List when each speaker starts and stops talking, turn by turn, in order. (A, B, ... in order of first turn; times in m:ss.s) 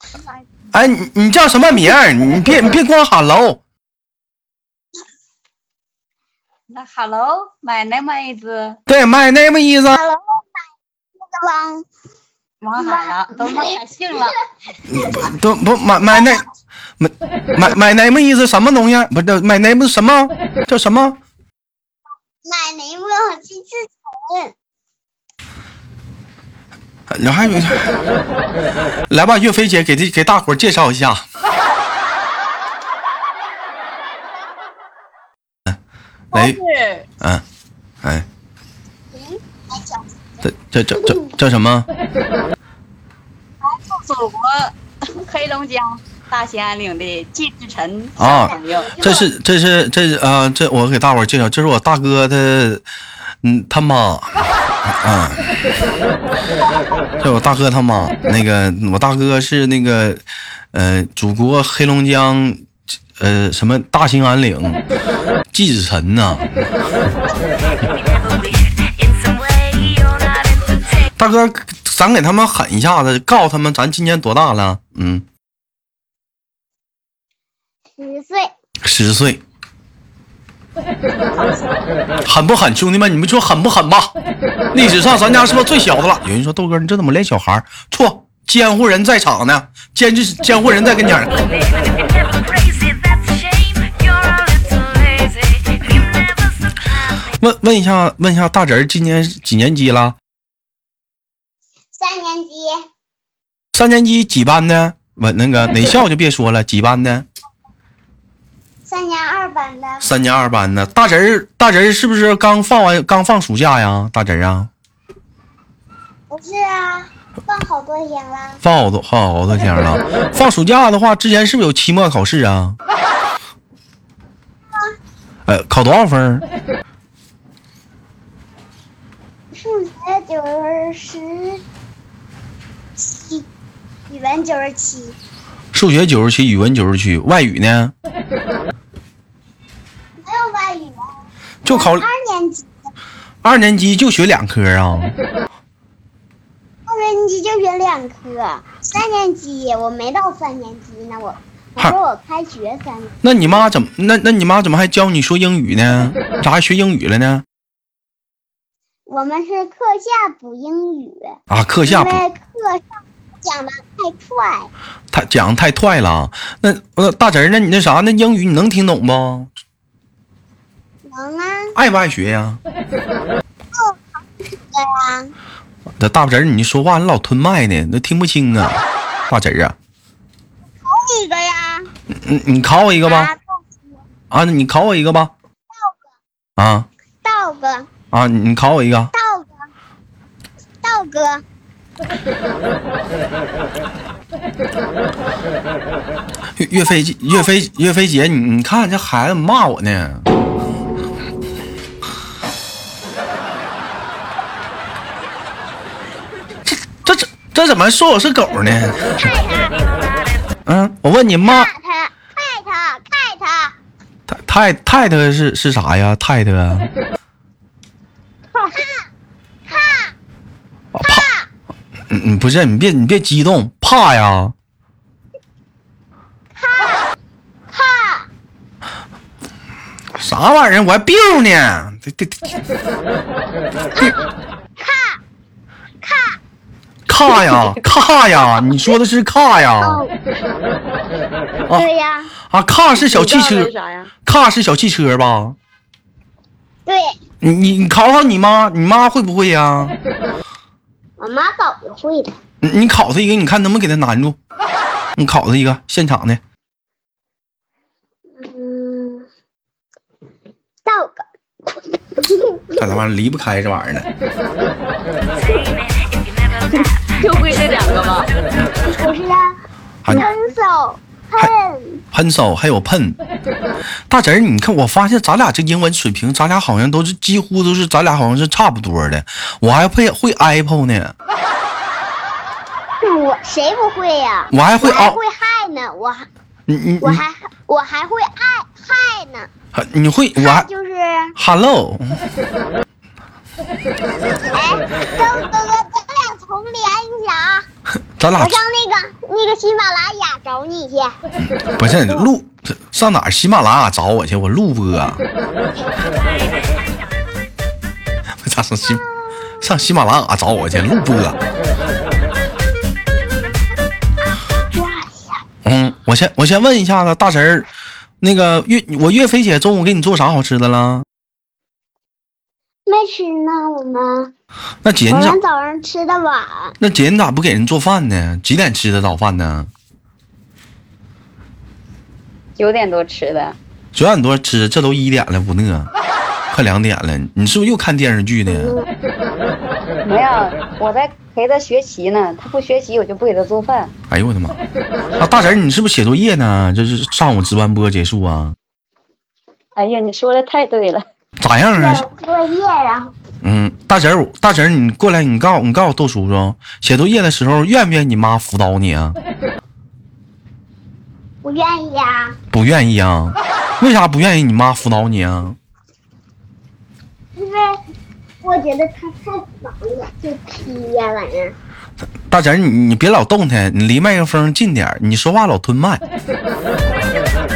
0:00.7-0:03.6 A
0:06.7-0:08.8 B
0:08.9-0:10.0 A
0:09.9-0:10.5 C
0:11.2-0:11.8 C
0:12.6-0:14.3 B
0:12.8-0:13.7 C
0:14.9-0:16.4 A
0:17.0-0:21.2 A
0:22.4-0:24.5 C
0:27.1-0:28.0 A
0:29.1-0:31.2 A
0:36.3-0:36.6 A
0:36.3-0:37.1 B
0:39.1-0:40.0 C
0:40.4-0:41.9 A
0:43.6-0:49.2 B
0:48.2-0:52.8 A
0:48.5-0:49.1 C
0:53.4-0:55.6 A
0:57.2-1:04.8 A
1:05.5-1:06.7 A
1:09.7-1:10.1 A
1:11.2-1:15.2 A
1:18.0-1:18.5 C
1:18.8-1:19.4 A
1:21.2-1:21.6 B
1:22.2-1:24.1 A
1:24.7-1:31.4 A
1:37.4-1:40.1 A
1:41.9-1:42.8 C
1:43.7-1:47.3 A
1:48.8-1:50.0 C
1:50.0-1:54.7 A
1:56.3-1:58.6 C
1:58.6-2:02.8 A
2:05.5-2:06.4 A
2:09.5-2:11.6 C
2:13.0-2:13.4 C
2:14.1-2:15.2 C
2:15.7-2:17.9 A
2:20.2-2:21.0 C
2:21.6-2:22.0 A
2:21.7-2:22.7 C
2:23.4-2:25.1 A
2:26.9-2:33.2 C
2:33.2-2:37.4 A
2:39.1-2:41.3 C
2:41.5-2:42.2 A
2:41.8-2:42.8 C
2:43.4-2:44.7 C
2:45.1-2:49.5 A
2:51.0-2:51.7 C
2:51.8-2:52.6 A
2:54.7-2:55.3 C
2:56.0-2:59.8 A
3:00.9-3:01.9 C
3:02.2-3:03.3 A
3:03.0-3:03.6 C
3:04.3-3:05.3 A
3:06.6-3:06.9 A
3:07.2-3:07.9 C
3:08.1-3:09.1 A
3:09.1-3:09.5 C
3:10.8-3:11.4 C
3:16.6-3:20.3 A
3:26.6-3:29.2 A
3:29.2-3:29.8 C
3:30.6-3:31.7 A
3:31.4-3:33.7 C
3:34.3-3:36.9 A
3:38.5-3:39.0 C
3:39.7-3:40.1 C
3:40.9-3:41.3 A
3:41.0-3:41.4 C
3:42.1-3:44.5 A
3:46.6-3:47.1 C
3:47.7-3:48.3 C
3:50.1-3:52.5 A
3:53.9-3:54.2 C
3:54.8-3:55.2 C
3:56.0-3:56.4 C
3:57.1-4:00.0 A
3:59.8-4:00.1 C
4:01.7-4:02.3 C
4:02.4-4:03.7 A
4:03.0-4:04.1 B
4:04.2-4:05.6 A
4:07.4-4:10.0 A
4:11.2-4:12.3 C
4:12.6-4:14.4 A
4:15.2-4:16.4 A
4:18.4-4:19.3 C
4:20.8-4:21.2 C
4:22.2-4:22.8 C
4:22.8-4:24.1 A
4:26.6-4:28.3 B
4:28.9-4:29.4 C
4:30.1-4:32.0 C
4:32.1-4:33.2 A
4:34.1-4:41.1 A
4:43.0-4:46.3 C
4:44.5-4:45.2 A
4:46.7-4:47.2 A
4:47.0-4:49.5 C
4:49.7-4:50.7 A
4:50.4-4:51.3 C
4:51.4-4:52.2 A
4:54.5-4:57.6 C
4:58.2-4:58.6 A
4:58.4-5:01.2 C
5:01.7-5:05.2 A
5:01.9-5:02.3 C
5:08.4-5:09.0 A
5:09.6-5:11.4 A
5:14.7-5:15.4 C
5:15.6-5:17.7 A
5:18.2-5:21.0 A
5:22.9-5:24.3 C
5:24.8-5:25.4 A
5:25.1-5:26.8 C
5:26.8-5:29.7 A
5:32.6-5:33.6 B
5:33.9-5:35.9 A
5:36.5-5:38.8 A
5:38.5-5:38.9 C
5:40.0-5:43.9 B
5:44.1-5:44.6 A
5:45.2-5:48.6 A
5:49.8-5:51.0 B
5:51.4-5:52.0 A
5:51.7-5:53.1 C
5:53.4-5:59.2 A
6:01.4-6:02.4 C
6:02.5-6:05.6 A
6:07.4-6:07.7 C
6:08.4-6:11.5 C
6:12.3-6:16.0 A